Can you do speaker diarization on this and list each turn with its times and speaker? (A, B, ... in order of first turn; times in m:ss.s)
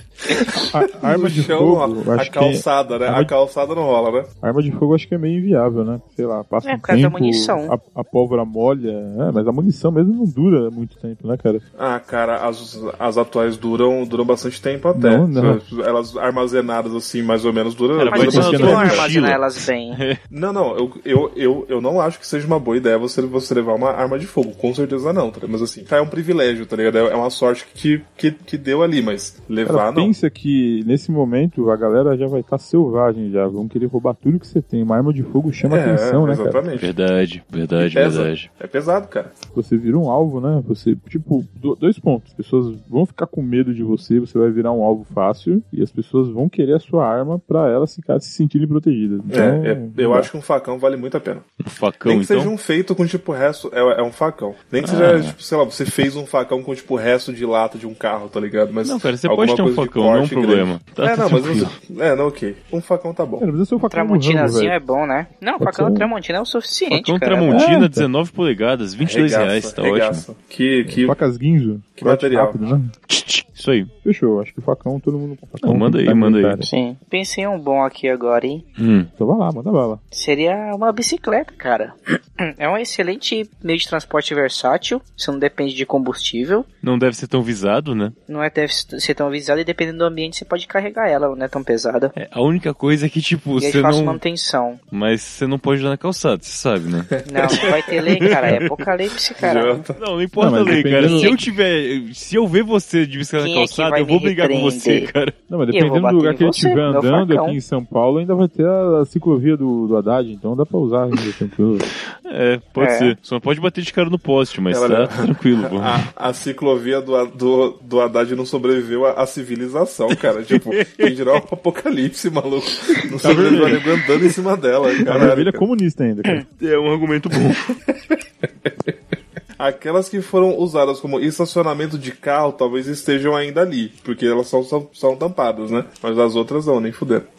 0:00.7-0:03.3 A
0:01.0-0:04.3 B
0:04.4-0:11.6 A
0:06.6-0:07.7 C
0:11.8-0:19.1 B
0:14.9-0:15.6 A
0:18.0-0:20.2 D
0:18.1-0:20.0 C
0:18.2-0:18.9 A
0:20.3-0:30.1 B
0:29.6-0:36.6 A
0:35.6-0:36.9 B
0:36.8-0:38.5 D
0:37.8-0:39.3 B
0:39.5-0:50.3 A
0:49.3-0:51.4 B
0:51.6-0:52.5 D
0:52.0-1:03.5 B
0:54.8-0:55.4 D
0:58.8-1:01.8 D
1:03.4-1:04.8 A
1:03.9-1:07.6 C
1:05.6-1:06.1 A
1:06.9-1:10.2 D
1:07.5-1:08.1 A
1:09.0-1:11.2 B
1:10.9-1:12.9 A
1:12.0-1:12.7 B
1:13.1-1:13.9 D
1:14.0-1:16.7 A
1:15.6-1:16.6 D
1:16.6-1:18.6 C
1:18.8-1:19.1 D
1:19.2-1:20.0 A
1:20.1-1:26.7 C
1:26.8-1:28.2 D
1:28.3-1:32.1 C
1:32.2-1:34.2 D
1:33.6-1:34.8 C
1:34.9-1:38.8 D
1:37.2-1:37.7 B
1:37.3-1:39.8 C
1:39.4-1:40.0 B
1:40.0-1:45.4 D
1:40.4-1:41.3 A
1:41.0-1:41.4 C
1:43.4-1:45.1 C
1:45.5-1:51.9 A
1:45.7-1:47.6 C
1:52.2-1:56.0 D
1:52.8-1:53.2 C
1:54.7-2:05.6 B
2:00.5-2:01.1 D
2:03.2-2:03.8 A
2:03.3-2:03.8 D
2:05.0-2:06.4 A
2:06.6-2:07.8 D
2:09.6-2:17.3 B